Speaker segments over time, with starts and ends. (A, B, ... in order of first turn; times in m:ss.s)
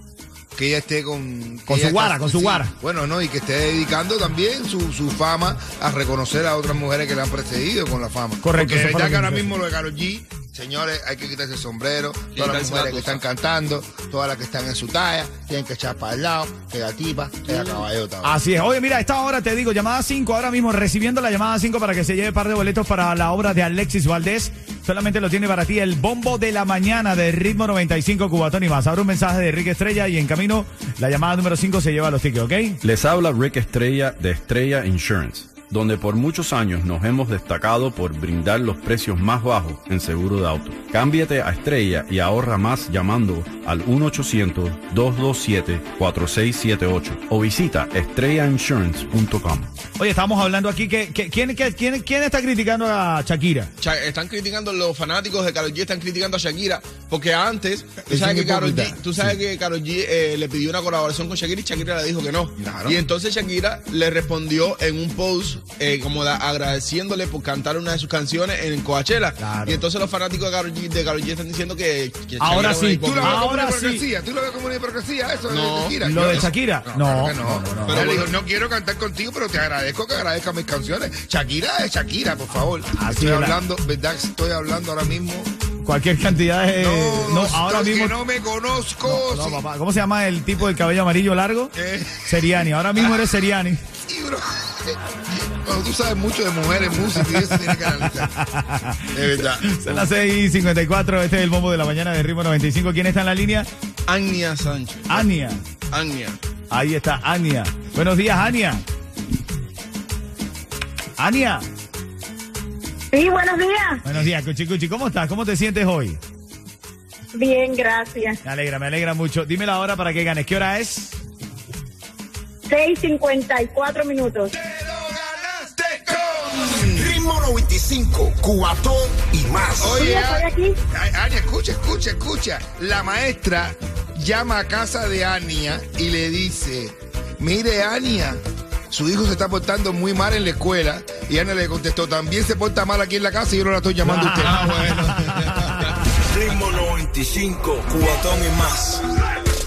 0:00.5-0:18.4 A
0:01.7-0:02.7 B
0:08.4-0:09.5 B
0:12.3-0:13.2 C
0:18.2-0:32.8 B
0:32.8-0:49.7 D
0:50.0-0:53.7 B
0:53.8-1:13.4 C
0:58.1-0:59.4 A
1:02.6-1:03.0 A
1:09.4-1:09.8 B
1:12.4-1:14.0 B
1:12.9-1:25.5 A
1:15.5-1:16.5 C
1:16.0-1:18.1 B
1:17.8-1:18.3 C
1:22.9-1:23.6 B
1:25.8-1:28.2 B
1:26.8-1:29.6 A
1:29.0-1:31.7 B
1:31.7-1:33.2 A
1:32.2-1:33.8 B
1:34.1-1:38.3 A
1:37.3-1:43.7 B
1:39.1-1:40.1 A
1:44.1-1:45.3 C
1:45.1-1:45.6 B
1:45.9-1:46.4 C
1:46.7-1:48.8 B
1:51.2-1:51.6 B
1:53.1-1:54.0 E
1:54.0-1:56.2 B
1:57.3-1:58.4 E
1:58.4-2:01.2 B
2:02.7-2:04.5 E
2:04.6-2:07.2 A
2:05.9-2:09.9 F
2:09.8-2:24.9 A
2:09.9-2:10.8 E
2:24.0-2:26.0 B
2:24.4-2:25.9 C
2:26.2-2:29.0 F